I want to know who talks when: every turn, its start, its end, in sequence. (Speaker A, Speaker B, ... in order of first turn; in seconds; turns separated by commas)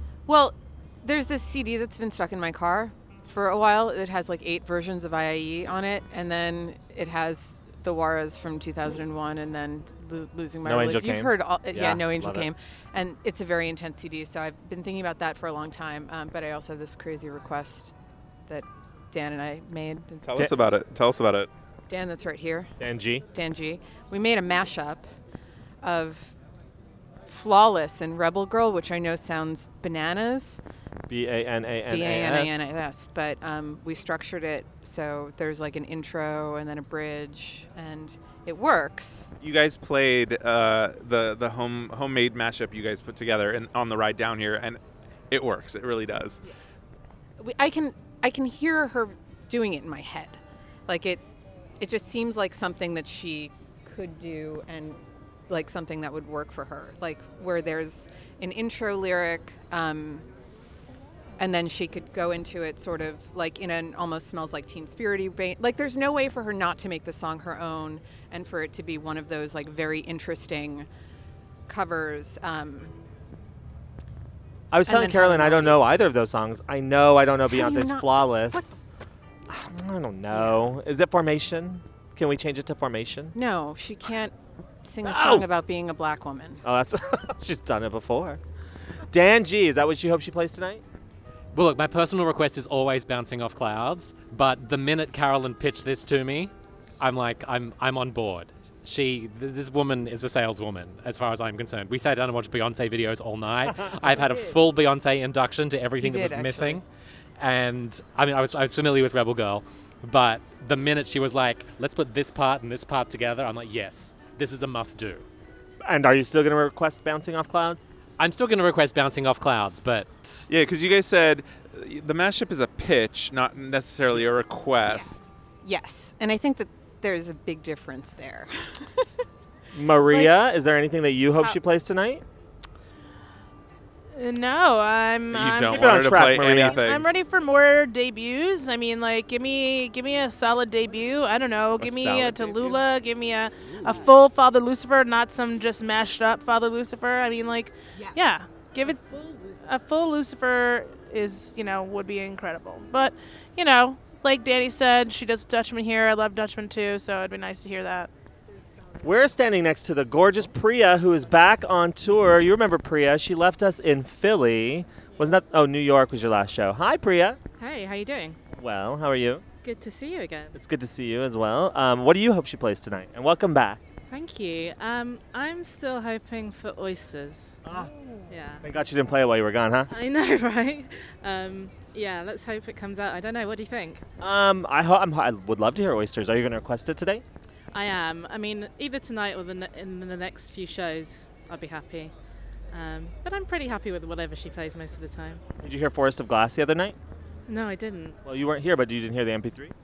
Speaker A: 0.3-17.9, Speaker B: 10.7-12.5, Speaker A: 18.5-20.3, Speaker C: 20.2-21.5, Speaker A: 21.9-22.7, Speaker B: 22.8-23.2, Speaker A: 23.3-25.1, Speaker A: 25.8-26.3, Speaker A: 27.3-30.6, Speaker B: 31.1-32.6, Speaker A: 31.9-39.3, Speaker C: 39.4-44.8, Speaker C: 45.3-46.4, Speaker A: 47.4-51.2, Speaker A: 51.8-60.2, Speaker A: 61.4-70.9, Speaker A: 71.7-72.9, Speaker B: 74.7-78.7, Speaker A: 74.9-75.8, Speaker A: 77.5-78.8, Speaker B: 79.5-83.3, Speaker A: 83.3-86.6, Speaker B: 85.0-85.5, Speaker B: 86.6-88.4, Speaker B: 89.1-90.8, Speaker D: 91.5-106.8, Speaker A: 104.1-104.6, Speaker A: 106.0-106.8, Speaker D: 107.4-115.2, Speaker B: 115.8-117.8, Speaker D: 118.2-120.5, Speaker C: 120.5-125.1, Speaker A: 124.9-129.0, Speaker B: 129.7-132.2, Speaker E: 134.2-158.1, Speaker C: 135.3-137.1, Speaker B: 135.7-136.8, Speaker B: 141.8-142.8, Speaker B: 159.0-167.4, Speaker F: 167.6-168.4, Speaker B: 168.6-169.4, Speaker F: 169.6-170.6, Speaker B: 170.6-173.8, Speaker F: 174.1-178.7, Speaker B: 177.7-179.9, Speaker F: 179.9-184.0, Speaker B: 184.2-187.2, Speaker F: 187.7-192.1, Speaker F: 192.7-195.4, Speaker B: 195.6-197.0, Speaker F: 197.5-198.2, Speaker B: 198.2-199.7